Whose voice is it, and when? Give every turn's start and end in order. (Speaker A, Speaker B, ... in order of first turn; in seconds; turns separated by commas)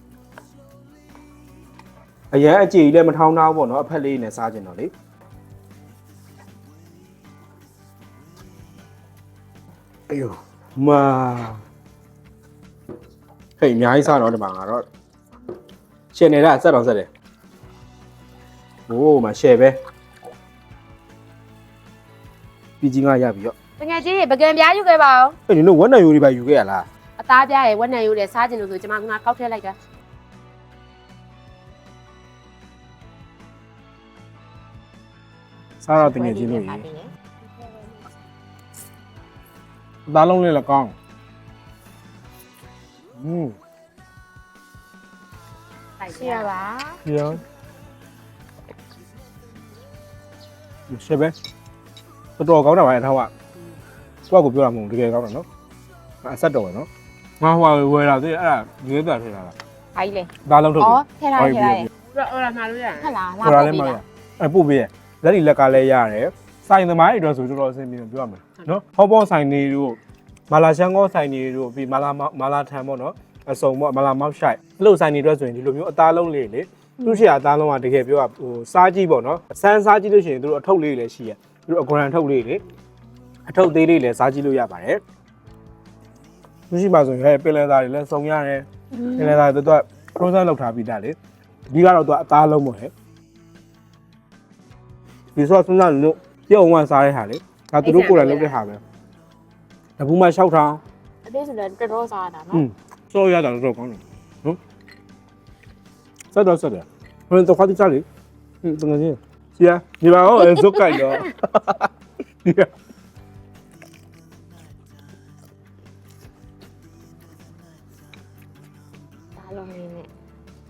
Speaker A: 2.3-4.9, Speaker A: 10.1-11.6, Speaker A: 13.6-14.8, Speaker A: 16.1-17.1, Speaker A: 18.9-19.8, Speaker A: 22.8-23.5, Speaker B: 23.8-25.4, Speaker A: 25.5-26.9, Speaker B: 27.2-29.8, Speaker A: 35.8-36.9, Speaker C: 36.0-37.1, Speaker A: 40.1-40.9, Speaker A: 43.2-43.5, Speaker B: 46.0-46.5, Speaker C: 46.1-47.0, Speaker A: 47.0-47.4, Speaker A: 50.9-51.3, Speaker A: 52.4-53.3, Speaker A: 54.3-55.5, Speaker A: 56.2-56.9, Speaker A: 57.4-59.5, Speaker C: 59.9-61.9, Speaker A: 60.4-61.9, Speaker B: 62.1-63.2, Speaker C: 63.0-64.0, Speaker A: 63.4-70.0, Speaker A: 70.5-82.6, Speaker A: 83.5-85.0, Speaker A: 86.7-91.2, Speaker C: 88.9-89.4, Speaker A: 91.7-92.9, Speaker A: 95.3-98.8, Speaker B: 97.8-98.6, Speaker A: 100.0-100.8, Speaker C: 101.2-102.6, Speaker A: 102.5-104.6, Speaker A: 106.3-108.0, Speaker A: 108.6-111.9, Speaker A: 112.4-112.7, Speaker C: 119.4-120.1